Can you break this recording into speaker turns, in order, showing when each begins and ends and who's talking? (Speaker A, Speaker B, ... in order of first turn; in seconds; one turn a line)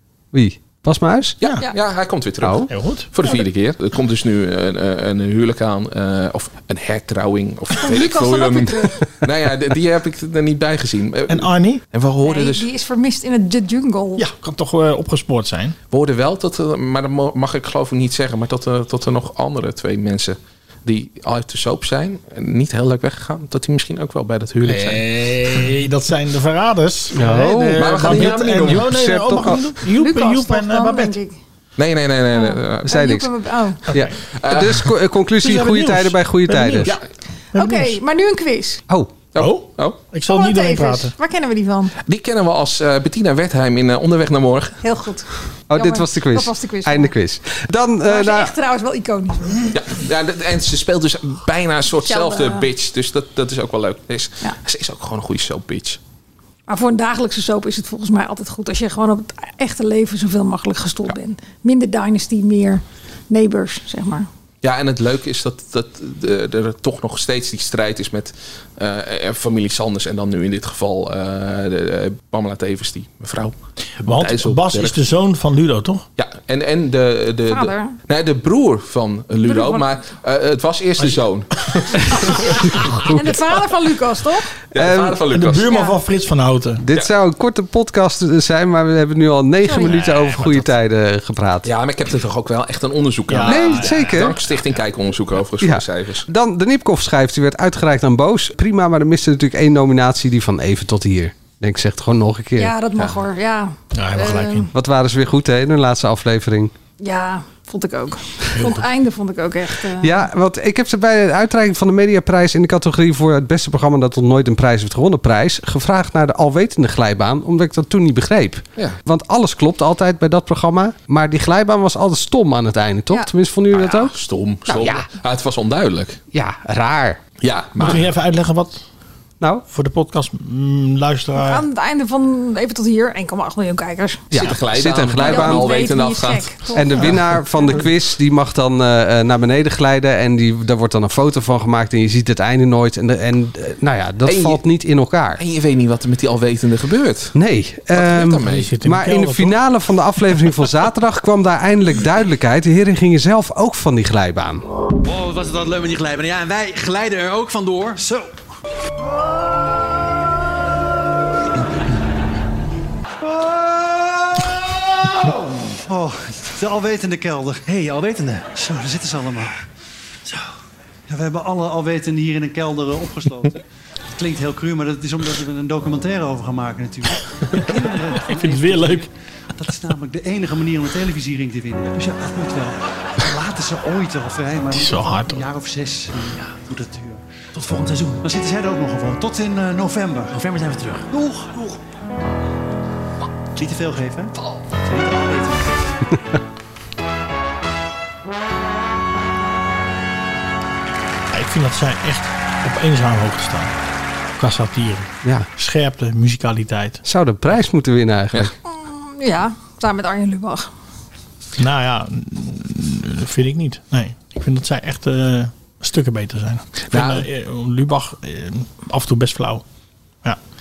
Speaker A: 0.3-1.4
Speaker B: 1.4-12.7
Speaker A: 2.4-2.7
Speaker C: 2.7-3.4
Speaker D: 7.8-9.1
Speaker C: 11.3-11.8
Speaker D: 12.2-14.2
Speaker C: 14.2-15.8
Speaker B: 15.9-25.0
Speaker C: 24.6-31.2
Speaker A: 27.1-29.6
Speaker B: 27.8-29.5
Speaker D: 29.9-31.4
Speaker B: 31.8-32.9
Speaker D: 32.3-33.8
Speaker A: 32.9-33.3
Speaker C: 33.9-34.1
Speaker A: 33.9-36.9
Speaker B: 34.4-34.9
Speaker C: 35.4-37.0
Speaker C: 37.5-38.0
Speaker D: 37.5-38.8
Speaker B: 39.3-40.0
Speaker C: 39.4-41.1
Speaker D: 40.3-41.9
Speaker B: 42.0-44.8
Speaker D: 44.8-47.1
Speaker A: 45.7-48.5
Speaker D: 48.0-49.6
Speaker B: 49.7-56.0
Speaker D: 52.0-52.7
Speaker D: 56.7-64.3
Speaker B: 64.6-75.0
Speaker C: 74.0-76.1
Speaker B: 76.2-83.1
Speaker D: 77.5-78.0
Speaker D: 79.4-79.8
Speaker D: 83.1-84.5
Speaker B: 84.7-85.7
Speaker A: 84.8-85.2
Speaker C: 85.3-86.8
Speaker D: 85.7-85.9
Speaker A: 86.8-91.7
Speaker D: 89.6-89.9
Speaker B: 89.9-90.6
Speaker B: 91.7-96.3
Speaker C: 93.3-94.4
Speaker A: 93.4-94.4
Speaker A: 95.6-102.7
Speaker D: 102.6-104.7
Speaker C: 103.9-104.7
Speaker A: 104.7-106.7
Speaker D: 107.0-110.3
Speaker C: 108.5-108.8
Speaker A: 110.0-124.1
Speaker B: 123.7-126.2
Speaker A: 124.7-125.1
Speaker A: 126.3-127.2
Speaker B: 127.4-128.0
Speaker C: 127.8-128.8
Speaker C: 129.7-131.6
Speaker D: 131.4-134.3
Speaker A: 134.3-135.7
Speaker B: 134.3-137.2
Speaker D: 135.2-137.6
Speaker A: 136.8-145.4
Speaker B: 144.2-144.6
Speaker B: 145.4-147.4
Speaker A: 147.4-154.6
Speaker B: 147.9-148.7
Speaker C: 148.4-149.6
Speaker E: 155.0-158.0
Speaker F: 158.0-158.3
Speaker F: 165.2-169.5
Speaker F: 171.1-173.6
Speaker F: 174.1-191.8
Speaker C: 178.2-179.1
Speaker C: 184.7-185.5
Speaker F: 193.6-195.9
Speaker C: 201.3-203.7
Speaker C: 204.4-207.0
Speaker A: 207.1-208.5
Speaker D: 208.7-210.7
Speaker C: 211.6-219.6
Speaker B: 216.9-217.3